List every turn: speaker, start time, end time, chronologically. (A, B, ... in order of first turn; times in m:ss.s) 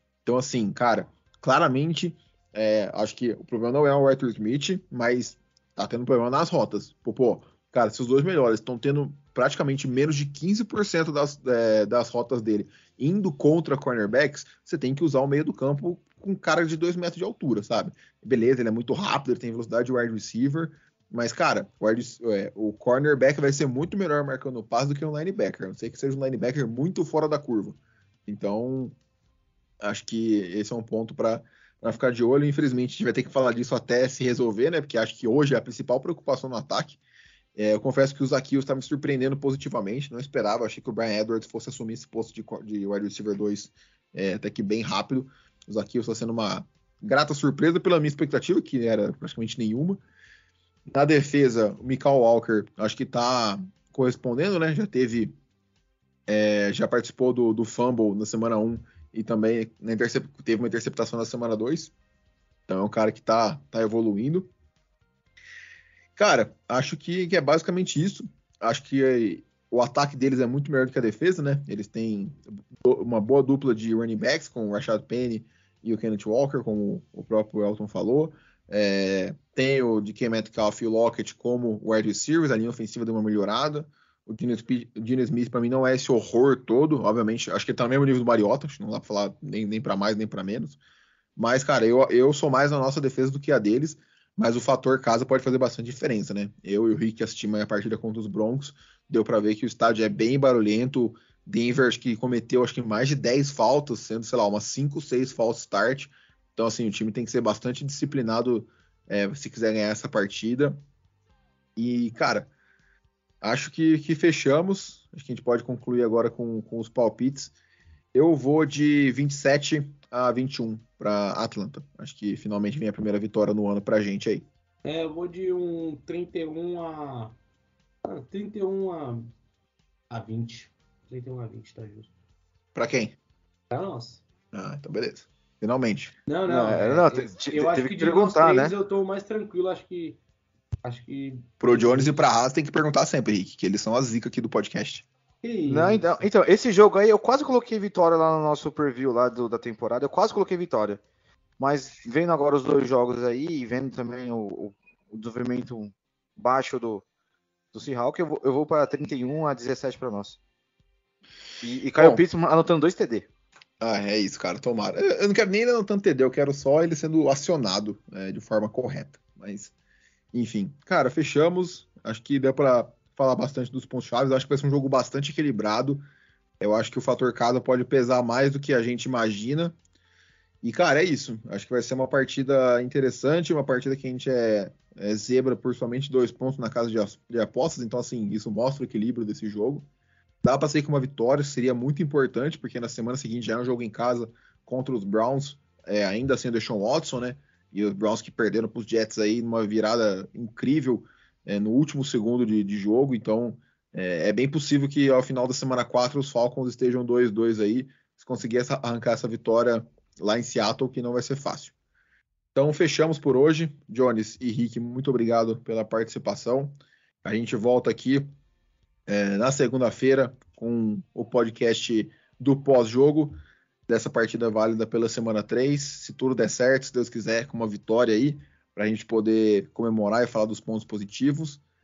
0:00.2-0:29.0 A
0:29.8-0:37.0 A
0:37.6-0:50.0 A
0:50.9-0:55.4 A
0:56.3-1:01.9 A
1:02.7-1:04.5 A
1:06.2-1:30.8 A
1:31.4-1:50.8 A
1:51.8-1:52.5 A
1:53.4-1:57.5 A
1:58.1-2:04.5 A
2:04.8-2:07.4 B
2:08.0-2:09.3 B
2:10.1-2:12.1 B
2:12.8-2:13.2 A
2:13.7-2:14.2 B
2:14.5-2:16.2 A
2:16.3-2:20.2 B
2:16.5-2:18.8 C
2:20.8-2:22.1 B
2:21.6-2:25.1 A
2:25.4-2:26.2 B
2:25.7-2:31.0 C
2:31.6-2:37.0 C
2:37.7-2:40.4 C
2:41.6-2:43.3 C
2:43.8-2:49.7 A
2:50.3-2:56.0 A
2:56.6-2:59.8 A
3:00.6-3:09.9 A
3:10.4-3:31.7 A
3:32.6-3:38.3 A
3:39.1-3:51.6 A